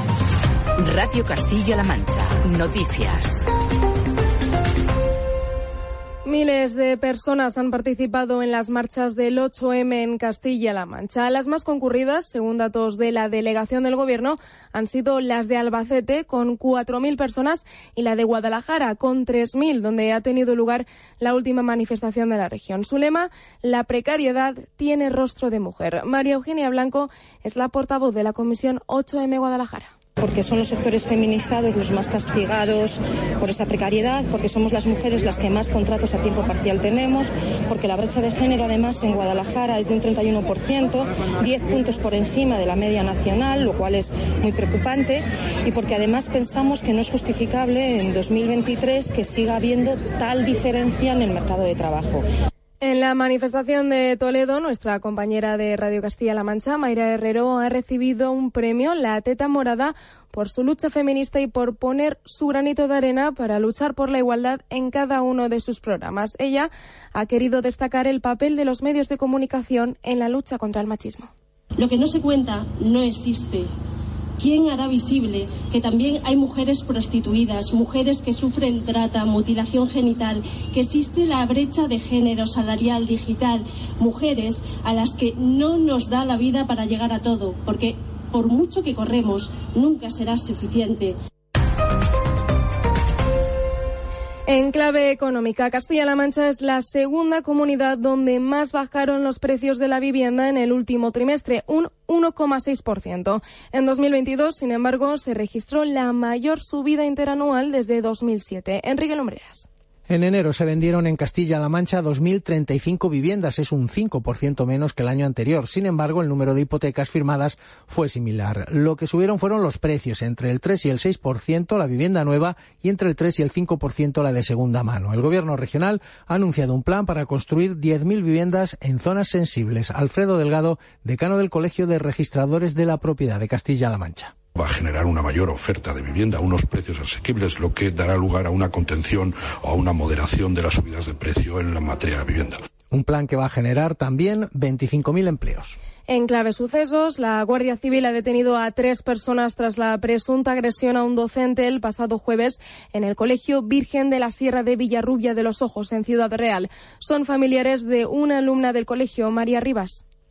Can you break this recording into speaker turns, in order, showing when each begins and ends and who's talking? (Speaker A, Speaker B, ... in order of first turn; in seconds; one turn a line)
Speaker A: 0.8-3.5
Speaker B: 6.2-29.9
Speaker C: 30.2-52.2
Speaker B: 52.8-71.3
Speaker D: 71.8-73.7
Speaker D: 74.4-91.2
Speaker B: 94.5-109.7
Speaker E: 110.1-134.3
Speaker F: 134.6-142.6
Speaker E: 142.9-145.8
Speaker B: 146.1-160.0